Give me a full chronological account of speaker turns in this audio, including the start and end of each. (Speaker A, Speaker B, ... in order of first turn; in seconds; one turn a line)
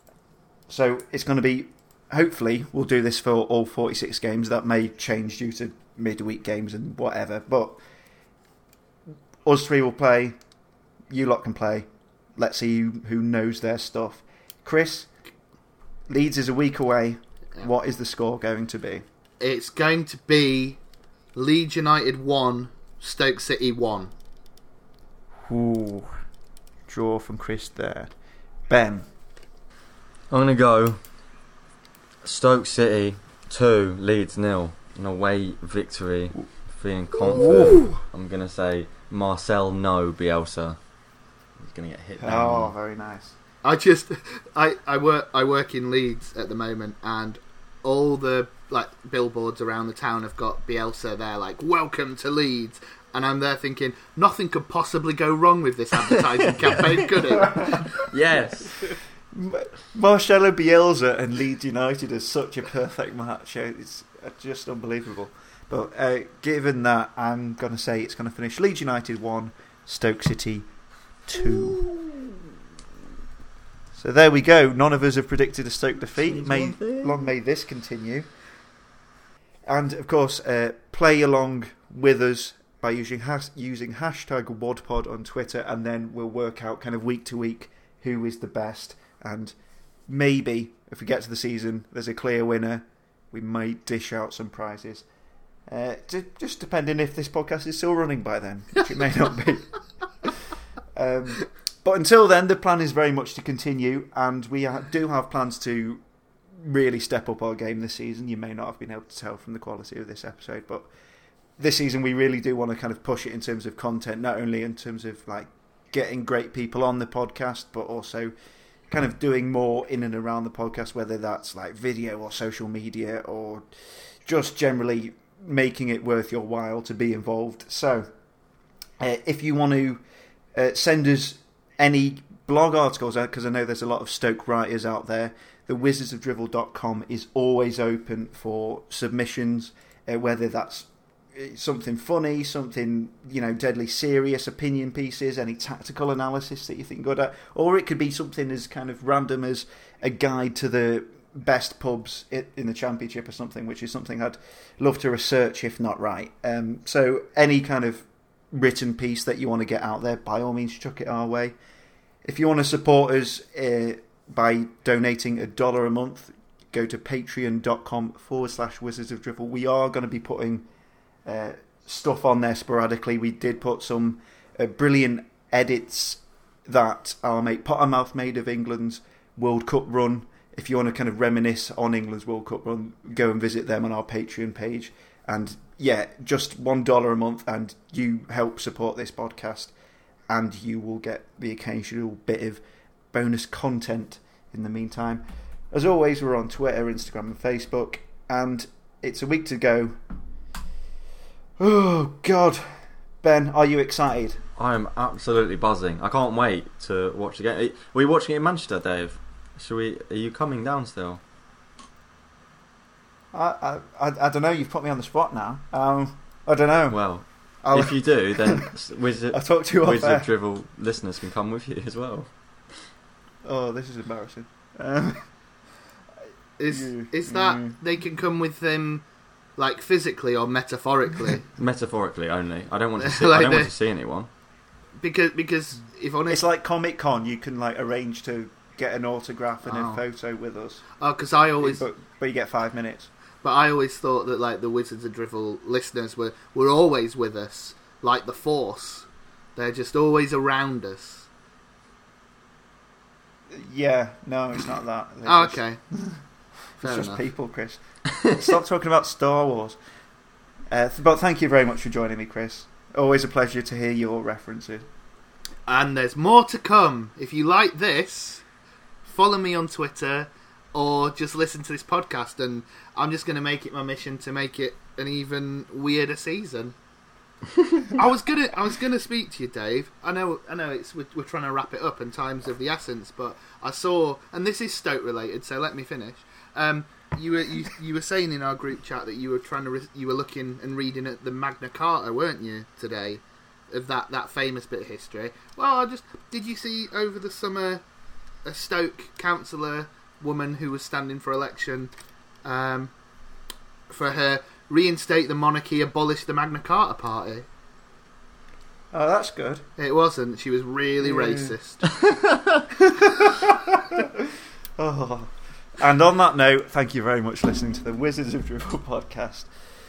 Speaker A: 0.7-7.8
Speaker A: 9.4-10.4
Speaker A: 11.1-15.1
Speaker A: 16.1-19.1
Speaker B: 19.4-20.8
Speaker B: 21.4-24.1
Speaker A: 25.5-26.2
Speaker A: 26.9-28.1
Speaker A: 28.7-29.1
Speaker C: 30.3-31.0
Speaker C: 32.2-40.8
Speaker A: 37.3-37.9
Speaker C: 41.6-42.7
Speaker A: 42.2-43.4
Speaker B: 43.6-58.0
Speaker C: 56.1-57.2
Speaker A: 57.4-58.0
Speaker C: 58.1-58.9
Speaker A: 59.3-70.7
Speaker A: 71.2-71.8
Speaker C: 71.4-72.3
Speaker A: 74.0-78.3
Speaker C: 76.2-77.2
Speaker A: 79.7-89.5
Speaker A: 90.1-95.1
Speaker A: 95.7-99.7
Speaker A: 101.0-106.0
Speaker A: 106.5-110.9
Speaker A: 111.6-118.3
Speaker A: 118.9-128.1
Speaker A: 129.0-130.0
Speaker A: 130.6-161.6
Speaker A: 162.2-170.7
Speaker A: 171.3-189.7
Speaker A: 190.3-200.0
Speaker A: 201.6-204.4
Speaker C: 204.6-211.2
Speaker A: 213.3-218.7
Speaker C: 216.9-222.9
Speaker A: 219.3-220.3
Speaker A: 223.4-225.3
Speaker B: 226.6-229.0
Speaker A: 226.7-227.8
Speaker B: 229.6-231.5
Speaker C: 231.6-234.3
Speaker B: 233.0-233.7
Speaker B: 235.0-236.4
Speaker A: 236.3-240.8
Speaker B: 239.6-240.0
Speaker B: 241.0-241.8
Speaker A: 241.6-243.1
Speaker B: 243.4-251.3
Speaker A: 253.5-256.2
Speaker B: 255.3-255.8
Speaker A: 256.8-259.8
Speaker B: 256.8-257.2
Speaker A: 260.7-264.9
Speaker B: 265.7-268.4
Speaker B: 269.1-276.8
Speaker B: 277.9-297.8
Speaker B: 298.4-301.9
Speaker B: 302.4-302.9
Speaker B: 303.9-307.5
Speaker A: 308.9-309.7
Speaker B: 309.8-311.9
Speaker A: 311.0-311.6
Speaker C: 312.2-312.6
Speaker A: 312.8-314.1
Speaker A: 314.8-319.5